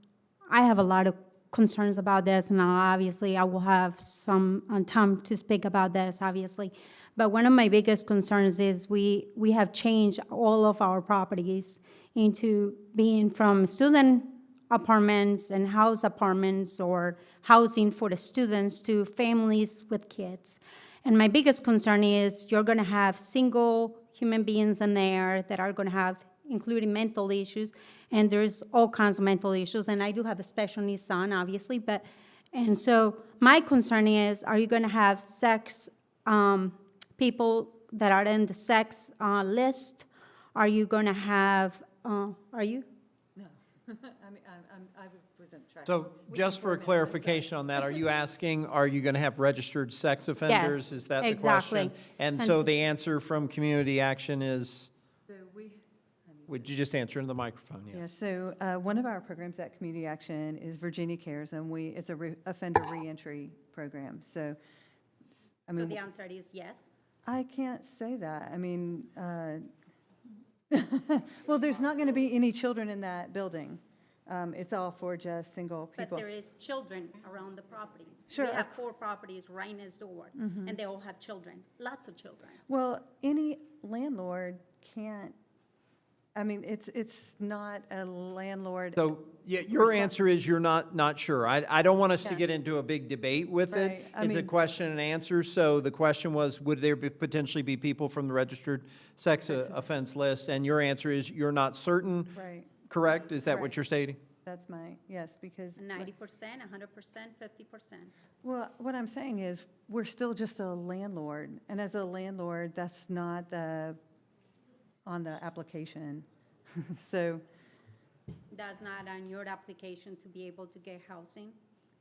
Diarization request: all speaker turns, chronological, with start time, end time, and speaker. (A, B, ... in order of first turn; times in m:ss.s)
0:00.5-0:42.9 A
0:43.4-0:47.8 B
0:45.8-0:54.9 C
0:50.5-0:52.6 A
0:55.3-0:56.7 B
0:56.5-0:58.1 C
0:57.9-1:04.6 B
1:05.7-1:06.0 B
1:05.7-1:06.9 A
1:07.2-1:09.7 B
1:10.7-1:16.2 B
1:16.0-1:22.6 A
1:18.3-1:18.8 B
1:20.4-1:20.7 B
1:22.7-1:25.4 B
1:26.3-1:29.2 B
1:29.0-1:42.4 C
1:29.7-1:30.1 B
1:33.7-1:34.5 B
1:39.5-1:39.8 B
1:42.3-1:42.7 B
1:42.9-1:44.2 C
1:44.4-1:46.1 B
1:45.8-1:48.1 A
1:48.4-1:54.0 B
1:55.0-1:57.4 B
1:58.5-2:01.6 A